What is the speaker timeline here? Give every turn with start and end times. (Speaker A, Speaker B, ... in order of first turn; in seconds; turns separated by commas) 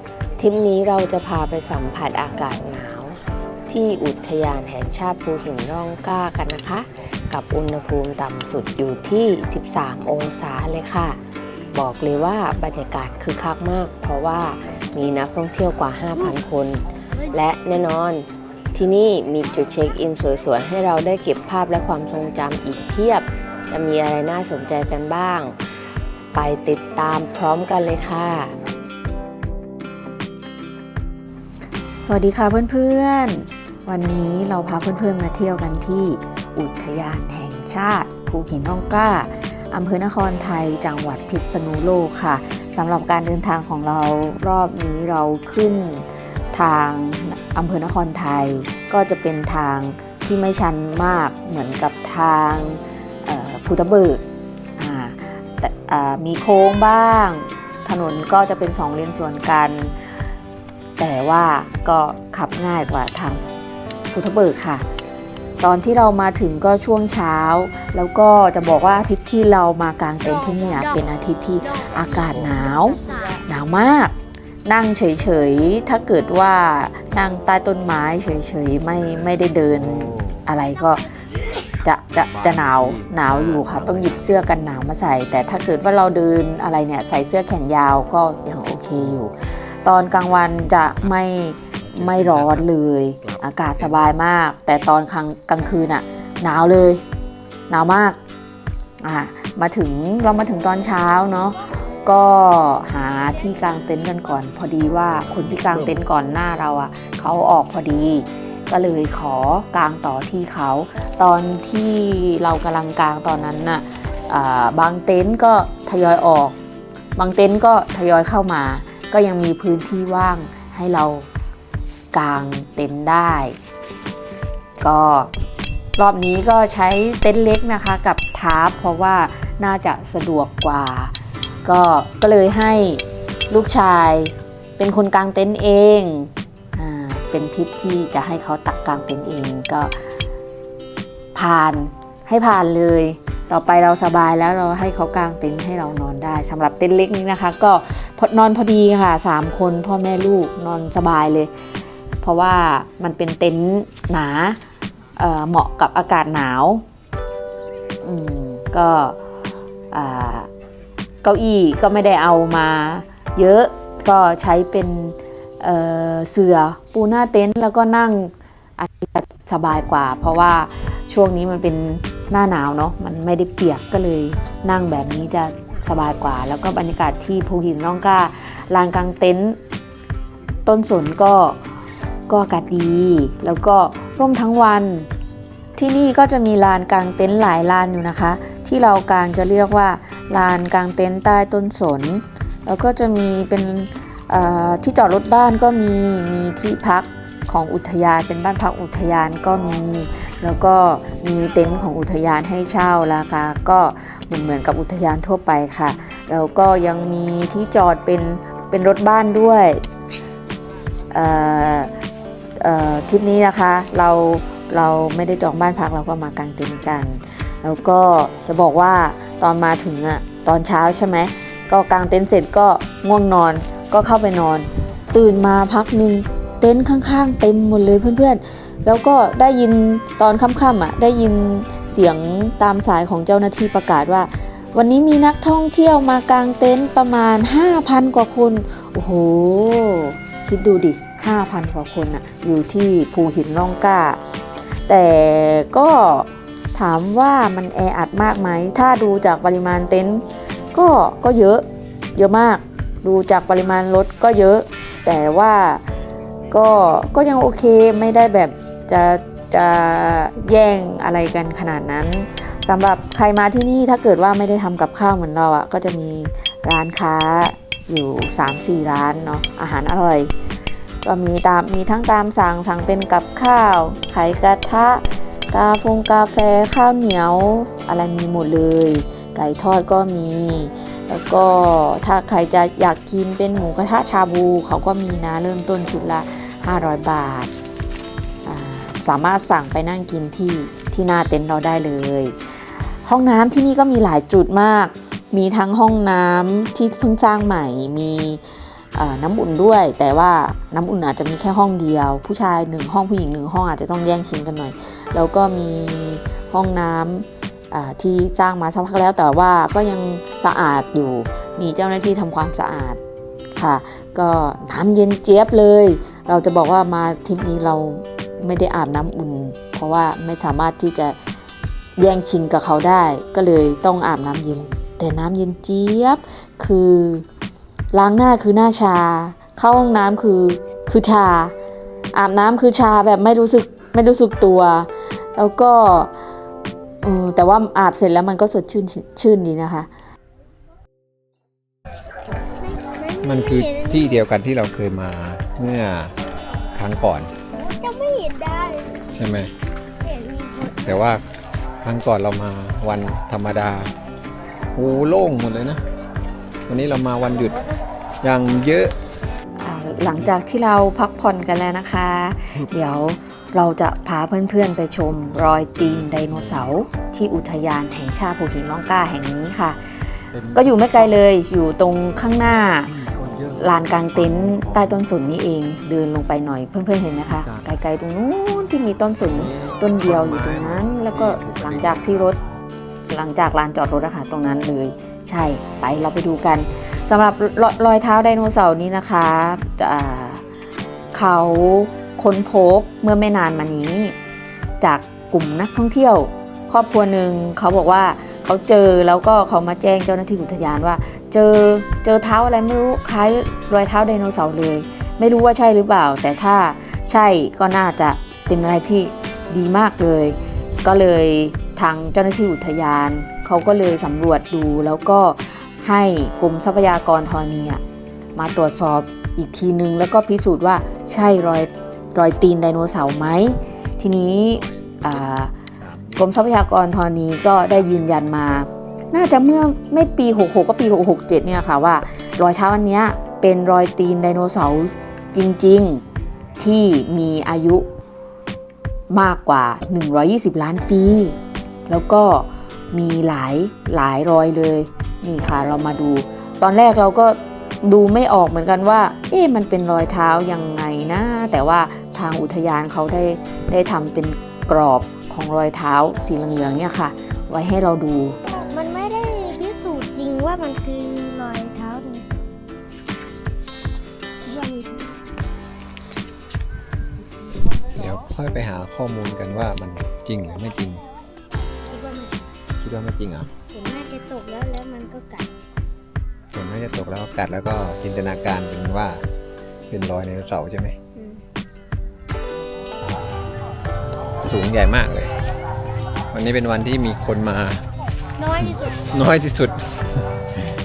Speaker A: 0.4-11.2, Speaker A: 11.7-25.5, Speaker A: 26.3-28.5, Speaker B: 32.0-54.2, Speaker B: 54.8-59.9, Speaker B: 61.0-63.4, Speaker B: 64.1-64.8, Speaker B: 65.6-74.1, Speaker C: 70.2-70.9, Speaker B: 74.6-81.0, Speaker D: 80.1-80.3, Speaker B: 81.8-89.3, Speaker D: 82.4-84.2, Speaker B: 89.8-97.0, Speaker D: 91.8-92.7, Speaker D: 93.2-94.0, Speaker B: 97.7-98.2, Speaker B: 99.0-116.5, Speaker B: 117.2-121.3, Speaker B: 122.1-123.6, Speaker B: 124.8-125.3, Speaker B: 126.0-131.1, Speaker B: 131.6-139.9, Speaker B: 141.3-151.5, Speaker B: 152.2-154.6, Speaker B: 155.2-156.8, Speaker B: 158.0-159.2, Speaker B: 159.9-160.5, Speaker B: 161.2-179.6, Speaker B: 180.7-181.6, Speaker B: 182.3-185.1, Speaker B: 185.8-209.8, Speaker B: 211.1-211.9, Speaker B: 212.6-244.2, Speaker B: 244.9-251.6, Speaker B: 252.2-255.8, Speaker B: 256.5-270.3, Speaker B: 271.0-287.5, Speaker B: 288.4-292.4, Speaker B: 293.0-298.4, Speaker B: 298.9-313.0, Speaker B: 313.5-321.1, Speaker B: 322.0-327.2, Speaker B: 327.9-331.5, Speaker B: 332.1-336.1, Speaker B: 337.0-339.9, Speaker C: 342.6-344.2, Speaker D: 343.2-346.1, Speaker D: 346.7-347.3, Speaker C: 347.5-349.0, Speaker D: 349.1-349.5, Speaker C: 350.0-350.9, Speaker D: 350.6-351.2, Speaker D: 351.8-353.9, Speaker D: 354.7-355.8, Speaker D: 356.7-357.6, Speaker D: 358.2-358.9, Speaker B: 359.6-369.8, Speaker D: 365.6-366.6, Speaker D: 370.3-370.9, Speaker B: 370.5-372.9, Speaker D: 372.9-375.0, Speaker B: 373.6-382.4, Speaker D: 377.2-377.7, Speaker D: 379.2-382.3, Speaker B: 383.1-390.4, Speaker B: 391.1-394.1, Speaker B: 394.8-417.8, Speaker B: 418.4-425.5, Speaker D: 424.6-425.2, Speaker D: 425.8-426.3, Speaker B: 426.2-436.0, Speaker D: 427.8-428.3, Speaker B: 436.6-437.8, Speaker B: 439.1-441.4, Speaker B: 441.9-458.4, Speaker C: 458.5-462.5, Speaker C: 464.4-465.1, Speaker D: 467.9-471.0, Speaker C: 471.9-472.4, Speaker D: 472.8-473.5, Speaker C: 473.7-475.5, Speaker D: 476.5-479.2, Speaker D: 479.9-481.0, Speaker D: 484.5-485.3, Speaker D: 486.3-487.8, Speaker C: 488.4-489.0, Speaker D: 488.6-490.4